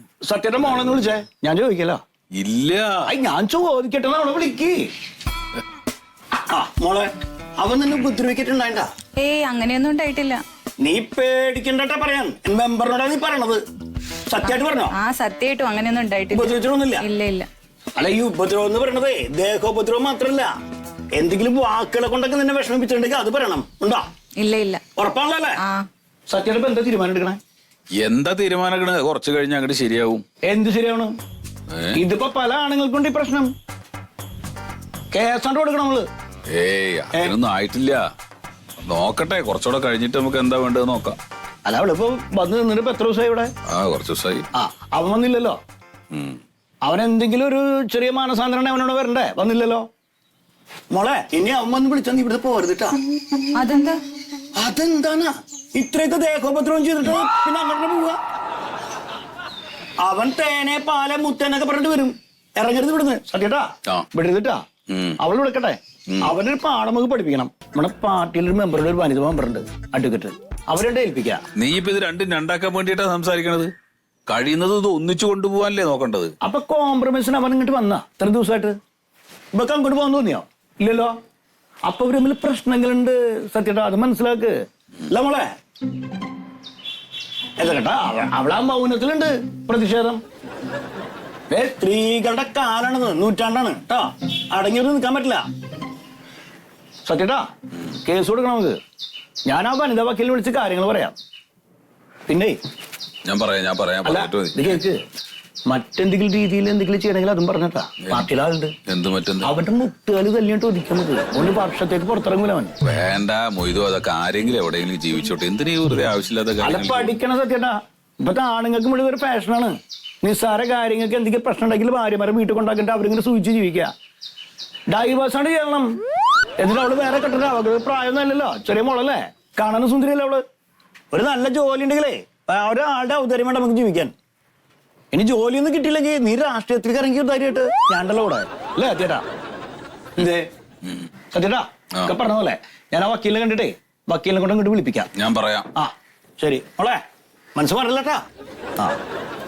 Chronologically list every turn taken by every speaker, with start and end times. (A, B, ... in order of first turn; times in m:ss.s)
0:00.2-0:02.0 A
0:00.6-0:01.0 B
0:02.4-0:03.1 B
0:03.1-0:04.9 A
0:06.3-0:08.9 A
0:09.2-0:10.4 C
0:10.8-0:13.6 A
0:14.3-0:15.0 A
0:14.4-0:17.5 C
0:16.3-0:17.1 A
0:18.0-0:20.5 A
0:21.2-0:24.1 A
0:24.4-0:24.8 C
0:25.0-0:25.6 A
0:25.6-0:25.9 C
0:26.3-0:27.4 A
0:28.0-0:30.2 B
0:30.4-0:31.2 A
0:31.7-0:32.0 B
0:32.0-0:33.5 A
0:35.1-0:36.1 A
0:36.5-0:38.0 B
0:38.8-0:41.2 B
0:41.7-0:43.5 A
0:43.7-0:44.5 B
0:44.5-0:45.6 A
0:46.1-0:46.4 B
0:46.8-0:49.9 A
0:50.9-0:53.0 A
0:53.6-0:54.0 C
0:54.5-0:58.2 A
1:00.0-1:04.6 A
1:04.9-1:05.2 B
1:05.2-1:11.4 A
1:06.1-1:06.4 B
1:11.6-1:13.7 B
1:14.3-1:16.3 B
1:16.4-1:18.8 A
1:19.5-1:21.2 A
1:21.9-1:25.5 A
1:27.6-1:30.2 A
1:31.5-1:35.5 A
1:37.0-1:37.5 A
1:38.0-1:38.8 A
1:39.5-1:41.2 A
1:42.3-1:42.6 A
1:43.3-1:44.8 B
1:44.0-1:45.0 A
1:45.7-1:48.8 A
1:48.9-1:49.5 B
1:49.4-1:52.8 A
1:52.8-1:57.2 B
1:56.6-2:03.9 A
2:04.9-2:06.0 A
2:06.6-2:10.4 A
2:11.1-2:14.1 A
2:15.1-2:19.3 A
2:20.2-2:20.5 A
2:21.3-2:25.1 A
2:25.2-2:25.7 B
2:25.8-2:27.0 A
2:27.6-2:28.2 A